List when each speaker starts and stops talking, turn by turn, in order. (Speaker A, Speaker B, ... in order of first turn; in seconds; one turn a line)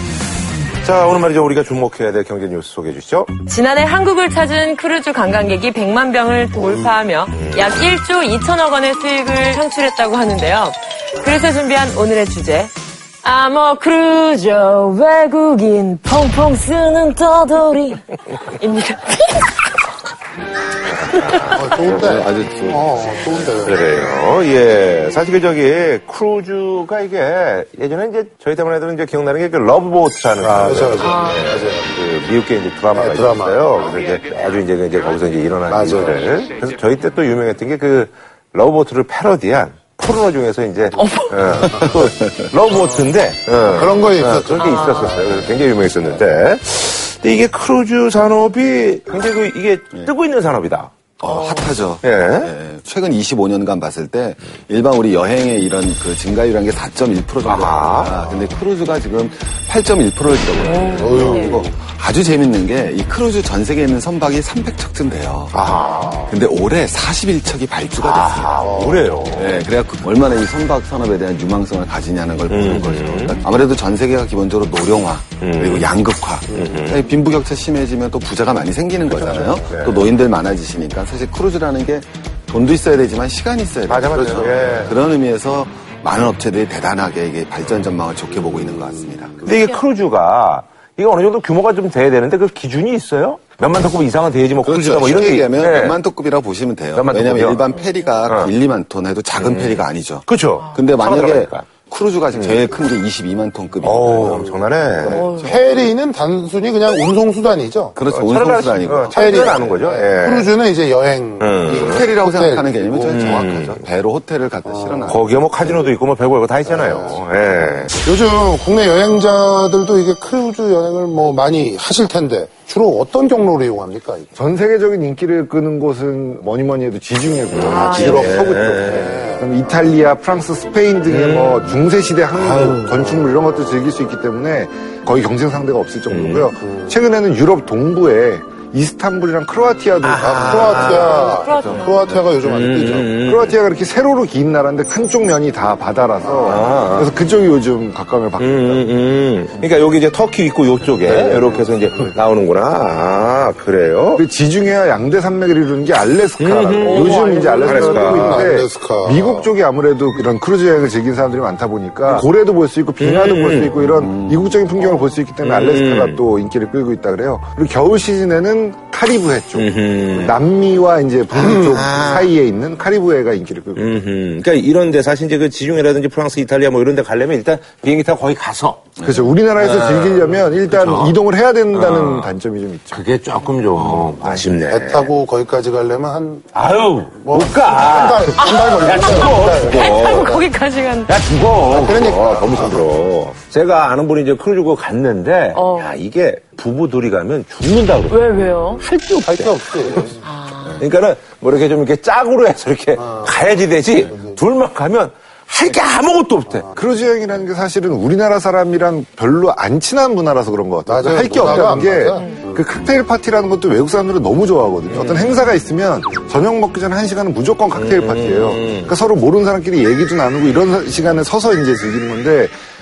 Speaker A: 0.8-3.3
Speaker B: 3.5-19.7
Speaker A: 7.3-7.8
Speaker A: 20.9-22.0
Speaker C: 21.4-23.9
Speaker D: 21.8-23.5
Speaker A: 23.6-50.9
Speaker C: 30.4-31.8
Speaker B: 31.0-31.4
Speaker C: 32.9-33.6
Speaker C: 35.7-36.3
Speaker B: 41.0-41.4
Speaker D: 41.8-42.3
Speaker C: 43.6-46.2
Speaker B: 44.5-45.2
Speaker D: 51.2-65.7
Speaker B: 51.2-51.7
Speaker A: 52.0-52.5
Speaker A: 57.4-58.1
Speaker B: 60.6-61.6
Speaker C: 60.9-61.8
Speaker A: 65.5-66.3
Speaker C: 65.8-66.3
Speaker D: 66.3-68.6
Speaker A: 68.0-69.6
Speaker C: 68.6-69.4
Speaker D: 69.3-89.4
Speaker A: 72.5-73.4
Speaker A: 75.4-75.9
Speaker A: 76.5-77.0
Speaker C: 76.6-77.0
Speaker A: 79.1-80.1
Speaker C: 79.4-79.8
Speaker A: 83.9-85.0
Speaker A: 89.4-96.0
Speaker D: 94.6-105.6
Speaker A: 96.9-97.6
Speaker A: 98.2-98.5
Speaker A: 99.3-101.7
Speaker A: 102.3-102.6
Speaker A: 103.8-105.2
Speaker B: 105.0-105.5
Speaker C: 105.4-108.0
Speaker D: 108.0-109.3
Speaker A: 108.1-110.5
Speaker C: 109.1-113.2
Speaker A: 111.4-112.0
Speaker D: 111.7-115.2
Speaker A: 113.1-113.8
Speaker C: 114.6-115.9
Speaker A: 115.1-118.0
Speaker C: 116.6-117.2
Speaker C: 118.0-124.3
Speaker E: 124.3-141.0
Speaker A: 127.5-129.2
Speaker B: 127.5-128.4
Speaker C: 128.7-129.5
Speaker A: 131.1-131.8
Speaker A: 132.3-133.2
Speaker A: 136.1-136.5
Speaker C: 136.7-136.9
Speaker A: 140.0-141.3
Speaker C: 140.2-143.1
Speaker B: 140.8-142.1
Speaker A: 142.2-143.6
Speaker E: 143.2-148.8
Speaker C: 146.2-146.8
Speaker A: 146.4-147.1
Speaker A: 148.4-154.2
Speaker C: 151.2-151.5
Speaker E: 154.1-174.0
Speaker A: 156.4-158.4
Speaker B: 156.8-158.2
Speaker C: 157.8-159.5
Speaker A: 163.0-163.8
Speaker D: 163.9-164.5
Speaker A: 165.4-166.2
Speaker A: 169.5-170.3
Speaker A: 171.7-172.3
Speaker A: 173.8-179.0
Speaker E: 179.0-183.0
Speaker A: 179.6-181.2
Speaker A: 181.7-182.3
Speaker A: 182.9-185.1
Speaker C: 184.7-186.5
Speaker A: 186.5-190.4
Speaker C: 187.2-190.4
Speaker B: 188.3-191.2
Speaker A: 191.1-198.2
Speaker C: 191.6-192.9
Speaker B: 195.5-195.9
Speaker B: 198.1-198.8
Speaker A: 198.8-200.2
Speaker C: 199.2-200.2
Speaker B: 200.2-200.8
Speaker A: 200.8-206.7
Speaker C: 203.0-203.4
Speaker C: 204.1-204.4
Speaker E: 206.7-222.5
Speaker C: 210.9-212.6
Speaker A: 214.9-215.4
Speaker A: 217.7-218.9